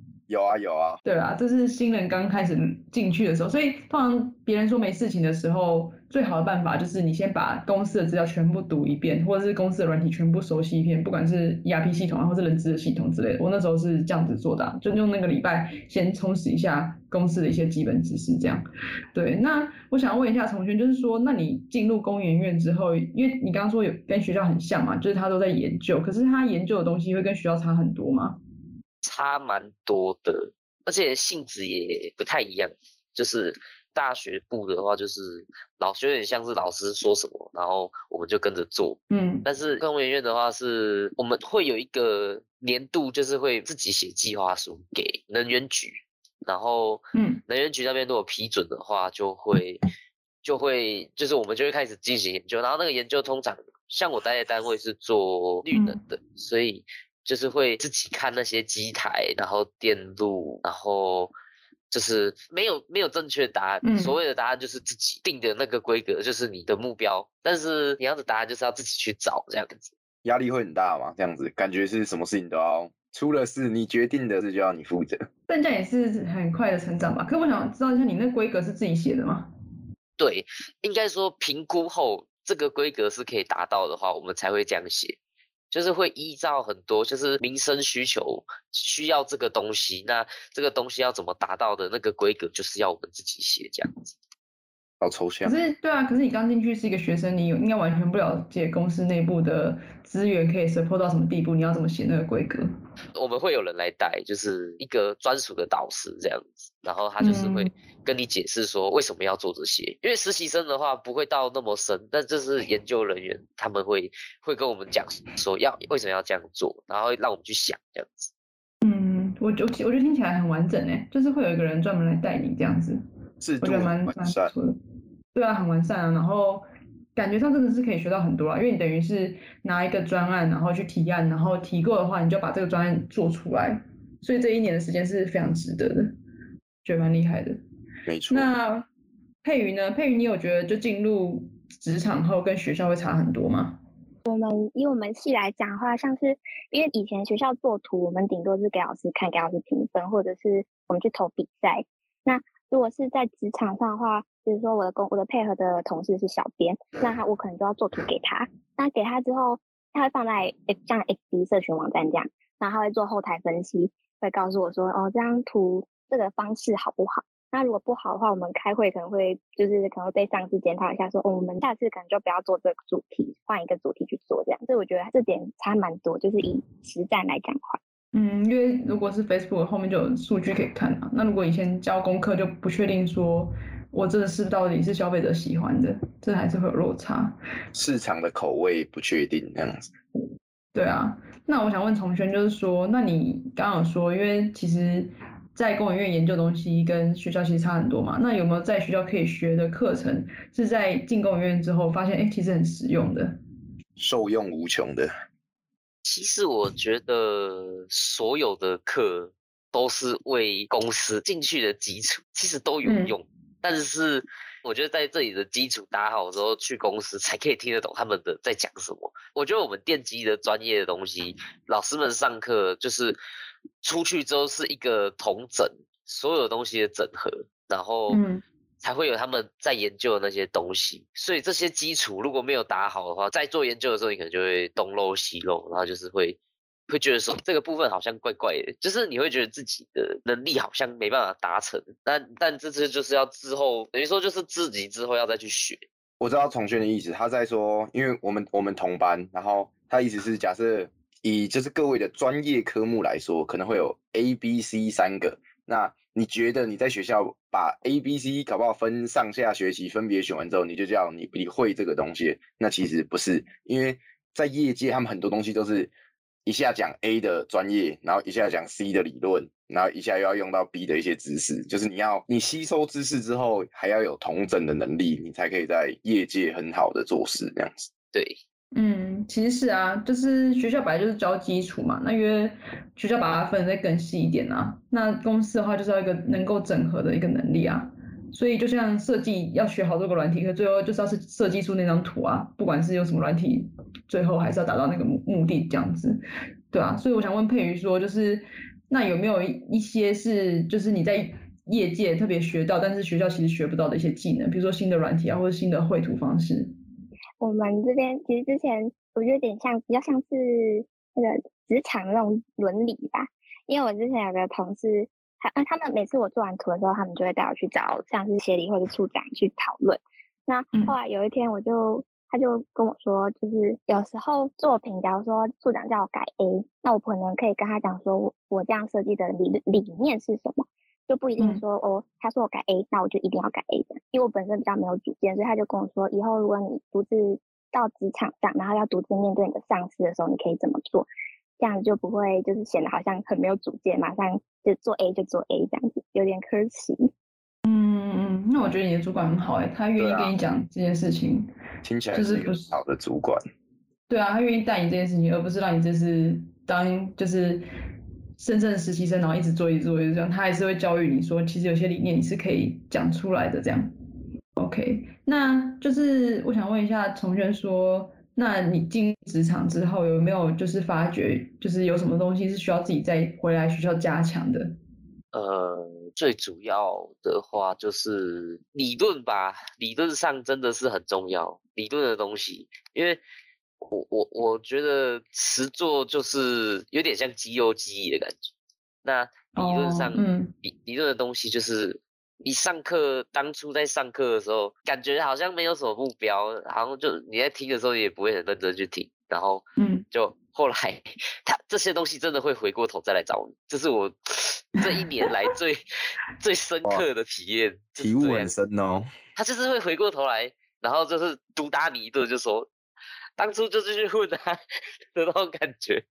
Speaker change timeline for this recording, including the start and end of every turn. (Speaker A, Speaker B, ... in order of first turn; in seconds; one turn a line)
Speaker A: 0.3-1.0
Speaker B: 1.0-28.4
Speaker C: 29.0-49.8
Speaker B: 39.1-39.5
Speaker B: 47.1-47.4
Speaker C: 50.4-61.3
Speaker B: 55.7-56.0
Speaker C: 61.9-69.9
Speaker B: 63.8-64.2
Speaker A: 70.2-75.3
Speaker B: 75.5-79.5
Speaker C: 80.2-85.2
Speaker C: 85.7-94.1
Speaker A: 95.0-95.5
Speaker B: 95.4-102.7
Speaker C: 103.1-118.3
Speaker B: 107.2-107.7
Speaker B: 118.8-123.0
Speaker A: 123.4-124.5
Speaker B: 123.6-124.8
Speaker B: 125.3-126.6
Speaker B: 127.2-136.1
Speaker B: 136.8-137.6
Speaker A: 138.1-138.5
Speaker B: 138.3-138.8
Speaker B: 139.4-143.8
Speaker D: 144.2-177.8
Speaker B: 178.1-187.3
Speaker A: 187.7-189.9
Speaker B: 190.7-203.4
Speaker A: 204.0-205.1
Speaker C: 206.0-223.2
Speaker B: 212.8-213.1
Speaker C: 223.8-228.2
Speaker B: 228.1-228.4
Speaker C: 228.8-245.8
Speaker A: 246.2-265.9
Speaker A: 266.4-277.8
Speaker C: 278.1-278.4
Speaker B: 278.7-296.2
Speaker B: 296.7-306.7
Speaker D: 307.4-341.1
Speaker D: 341.6-347.1
Speaker B: 347.6-351.5
Speaker A: 350.0-350.3
Speaker A: 351.8-353.4
Speaker B: 352.1-352.7
Speaker B: 354.1-357.6
Speaker B: 358.4-363.9
Speaker B: 364.6-374.7
Speaker C: 375.3-383.2
Speaker C: 383.8-388.5
Speaker C: 389.0-405.8
Speaker B: 389.6-390.5
Speaker B: 399.8-400.1
Speaker C: 406.4-408.5
Speaker A: 408.0-409.1
Speaker C: 409.4-412.7
Speaker C: 413.4-416.1